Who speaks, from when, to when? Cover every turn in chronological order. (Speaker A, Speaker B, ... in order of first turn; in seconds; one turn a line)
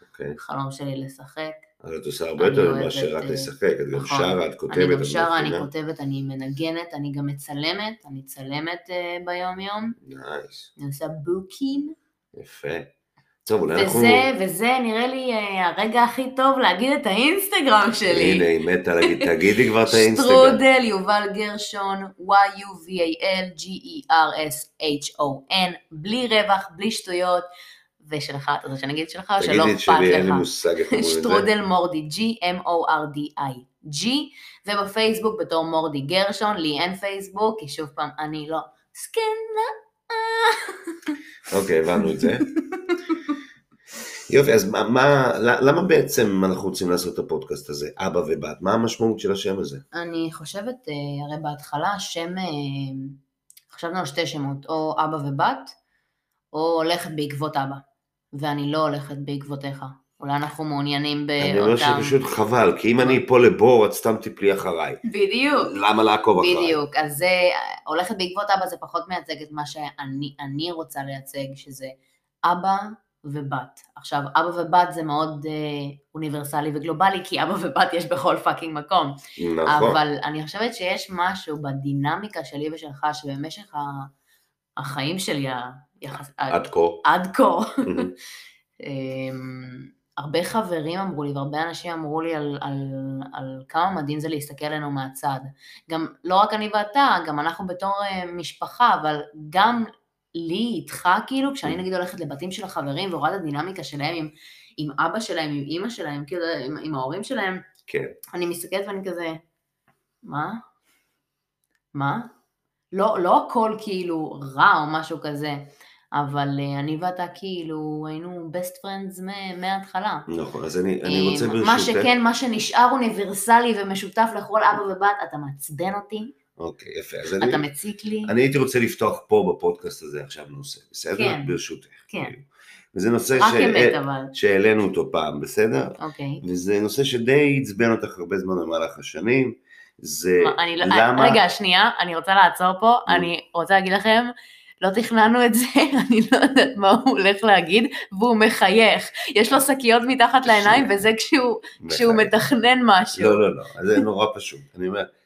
Speaker A: 0.1-0.4
Speaker B: 0.4-1.6
Speaker A: 1.8-5.7
Speaker B: 2.4-10.0
Speaker A: 10.0-10.7
Speaker B: 10.8-11.9
Speaker A: 12.4-12.9
Speaker A: 13.5-14.3
Speaker B: 13.8-18.5
Speaker A: 18.1-20.6
Speaker B: 19.9-27.5
Speaker B: 28.0-41.2
Speaker A: 29.4-31.5
Speaker A: 41.5-42.5
Speaker B: 42.0-43.4
Speaker A: 44.3-49.8
Speaker B: 49.9-53.2
Speaker B: 53.7-55.8
Speaker B: 56.5-57.8
Speaker B: 58.3-62.2
Speaker A: 61.4-65.0
Speaker B: 65.0-65.7
Speaker A: 65.6-66.8
Speaker B: 66.4-71.9
Speaker B: 72.5-84.1
Speaker A: 79.4-80.0
Speaker B: 84.8-88.1
Speaker A: 86.1-87.0
Speaker A: 87.8-88.1
Speaker B: 88.8-107.6
Speaker A: 107.9-108.2
Speaker B: 108.3-109.4
Speaker B: 110.2-110.6
Speaker B: 111.9-112.3
Speaker B: 112.9-120.3
Speaker A: 120.3-122.1
Speaker B: 121.0-126.3
Speaker A: 126.6-127.7
Speaker B: 127.4-128.3
Speaker A: 128.2-141.4
Speaker B: 131.1-131.6
Speaker B: 133.4-134.3
Speaker B: 136.0-136.4
Speaker B: 140.4-153.4
Speaker A: 150.4-150.9
Speaker A: 151.8-152.3
Speaker A: 153.2-155.1